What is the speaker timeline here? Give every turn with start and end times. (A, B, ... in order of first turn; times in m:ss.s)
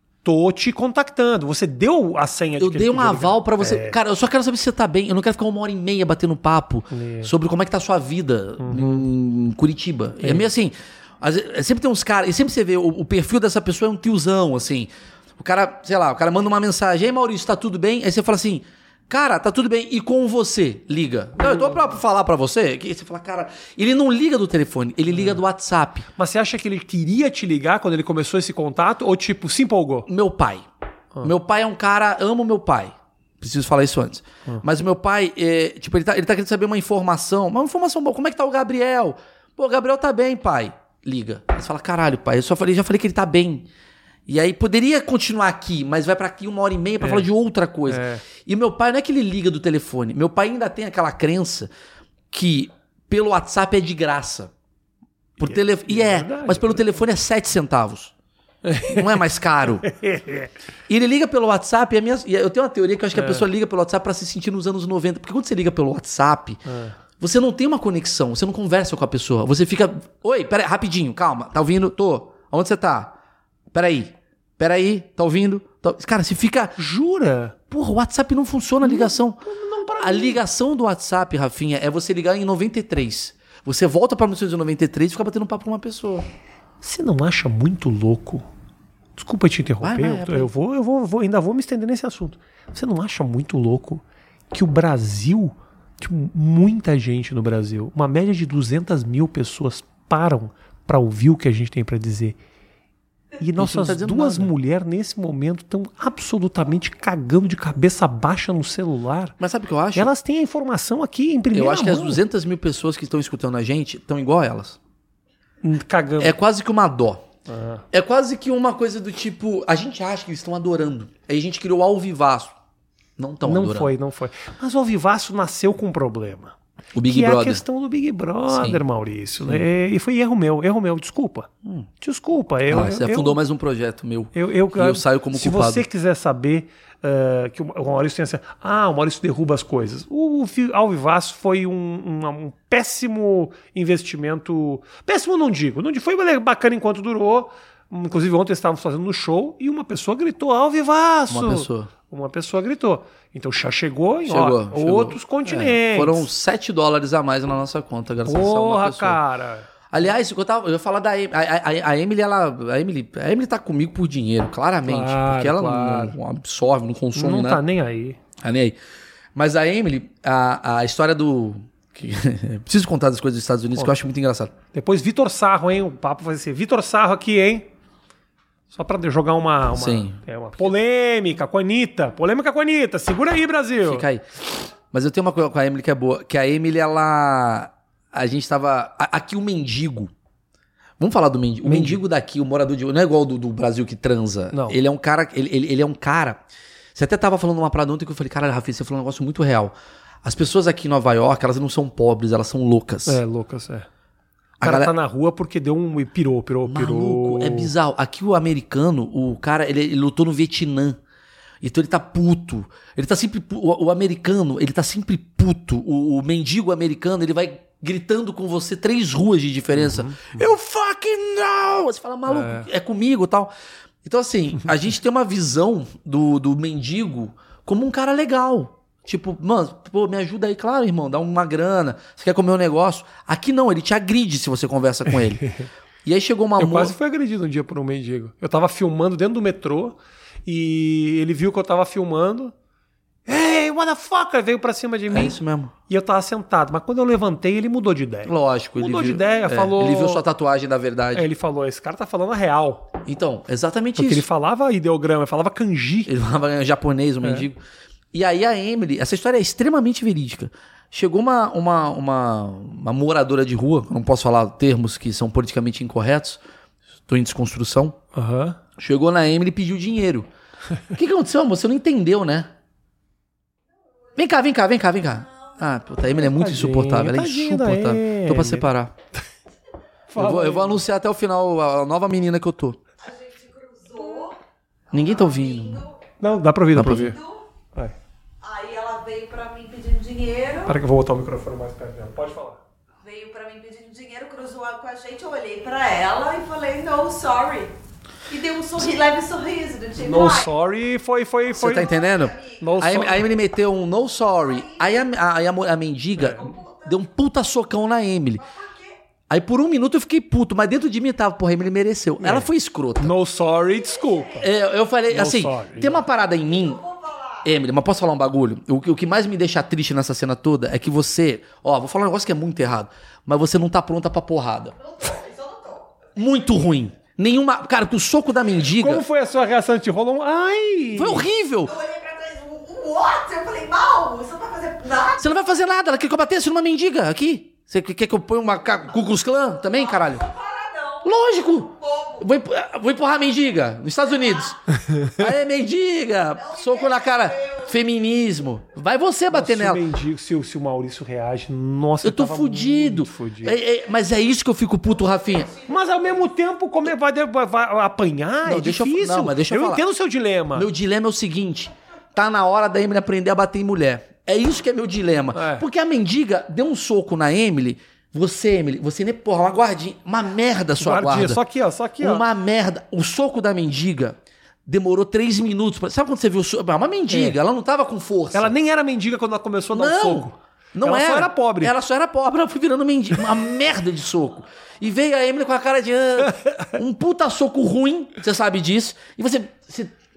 0:00.2-0:04.0 A
0:02.6-0:26.1 B
0:06.9-0:07.3 A
0:08.6-0:09.1 A
0:21.4-0:21.8 A
0:25.1-0:25.4 A
0:26.2-0:30.1 A
0:30.1-0:30.7 B
0:31.2-0:43.7 B
0:44.3-0:51.7 B
0:47.0-0:47.3 A
0:47.9-0:48.2 A
0:52.3-0:54.5 B
0:55.4-0:58.1 B
0:55.4-0:56.9 A
0:58.6-0:59.1 A
0:58.9-0:59.9 B
0:59.8-1:00.5 A
1:00.9-1:06.6 B
1:03.1-1:03.5 A
1:06.7-1:07.0 A
1:07.2-1:13.2 B
1:13.7-1:16.8 B
1:16.8-1:17.6 A
1:17.7-1:19.4 B
1:18.8-1:20.4 A
1:20.0-1:26.3 B
1:26.8-1:28.4 A
1:29.2-1:42.4 A
1:29.8-1:30.5 B
1:43.4-1:49.4 A
1:43.6-1:44.5 B
1:49.4-1:50.1 B
1:49.9-1:52.2 A
1:51.5-1:54.8 B
1:55.6-1:56.4 A
1:56.2-1:57.3 B
1:57.5-1:57.8 A
1:57.9-2:02.5 B
2:03.2-2:03.9 B
2:03.4-2:11.5 A
2:06.9-2:07.6 B
2:08.5-2:08.8 B
2:12.0-2:13.4 A
2:12.7-2:15.8 B
2:14.3-2:36.3 A
2:31.3-2:31.9 B
2:34.3-2:39.2 B
2:38.2-2:39.7 A
2:39.9-2:47.6 B
2:44.8-2:46.2 A
2:47.2-2:48.2 A
2:48.4-2:48.8 B
2:49.4-2:54.5 B
2:54.7-2:57.7 A
2:58.7-3:04.1 A
2:59.7-3:00.2 B
3:03.8-3:04.4 B
3:04.9-3:10.1 B
3:11.0-3:16.4 B
3:11.6-3:12.0 A
3:14.5-3:14.8 A
3:17.0-3:23.2 B
3:23.1-3:23.9 A
3:24.6-3:24.9 B
3:24.6-3:27.7 A
3:26.6-3:31.0 B
3:31.6-3:43.5 B
3:39.8-3:40.4 A
3:42.3-3:42.7 A
3:44.0-3:55.4 B
3:55.1-3:55.7 A
3:56.0-3:56.9 B
3:56.6-4:02.5 A
4:03.3-4:05.4 A
4:05.1-4:05.7 B
4:05.9-4:10.2 A
4:08.2-4:11.3 B
4:11.1-4:12.9 A
4:13.0-4:14.2 B
4:14.0-4:16.1 A
4:16.1-4:17.6 B
4:17.2-4:17.5 A
4:18.1-4:26.4 B
4:27.1-4:28.0 B
4:28.1-4:28.6 A
4:28.8-4:30.3 B
4:30.9-4:32.5 B
4:34.2-4:38.9 B
4:35.0-4:36.3 C
4:36.2-4:38.7 A
4:40.1-4:40.8 A
4:40.2-4:42.8 B
4:43.0-4:44.4 C
4:44.9-4:45.8 B
4:44.9-4:46.0 C
4:46.2-4:47.2 A
4:46.7-4:47.2 B
4:46.9-4:47.4 C
4:48.4-4:50.7 C
4:50.7-4:52.6 A
4:53.0-4:57.7 C
4:58.3-5:00.5 C
5:00.0-5:01.9 A
5:01.5-5:08.5 B
5:01.6-5:02.6 C
5:02.6-5:03.3 A
5:04.4-5:04.9 C
5:06.2-5:06.5 A
5:06.4-5:07.0 C
5:08.4-5:09.0 C
5:09.3-5:13.1 B
5:12.2-5:12.5 A
5:13.0-5:14.5 A
5:13.7-5:14.5 C
5:14.4-5:16.8 B
5:15.1-5:16.0 A
5:16.4-5:17.5 C
5:17.4-5:24.8 B
5:24.8-5:26.0 C
5:26.2-5:29.0 B
5:28.8-5:31.3 A
5:31.0-5:31.8 B
5:31.6-5:35.3 C
5:35.2-5:40.3 B
5:39.7-5:41.1 C
5:41.0-5:44.6 B
5:41.7-5:42.2 C
5:44.8-5:45.2 A
5:45.1-5:49.8 B
5:46.4-5:47.7 C
5:49.3-5:53.6 A
5:52.0-5:55.5 B
5:55.6-6:00.7 A
5:58.4-5:59.9 B
6:00.5-6:11.4 B
6:05.3-6:05.7 A
6:10.8-6:12.3 A
6:12.0-6:18.5 B
6:17.1-6:17.4 A
6:18.3-6:21.7 A
6:19.7-6:29.9 B
6:26.2-6:26.8 A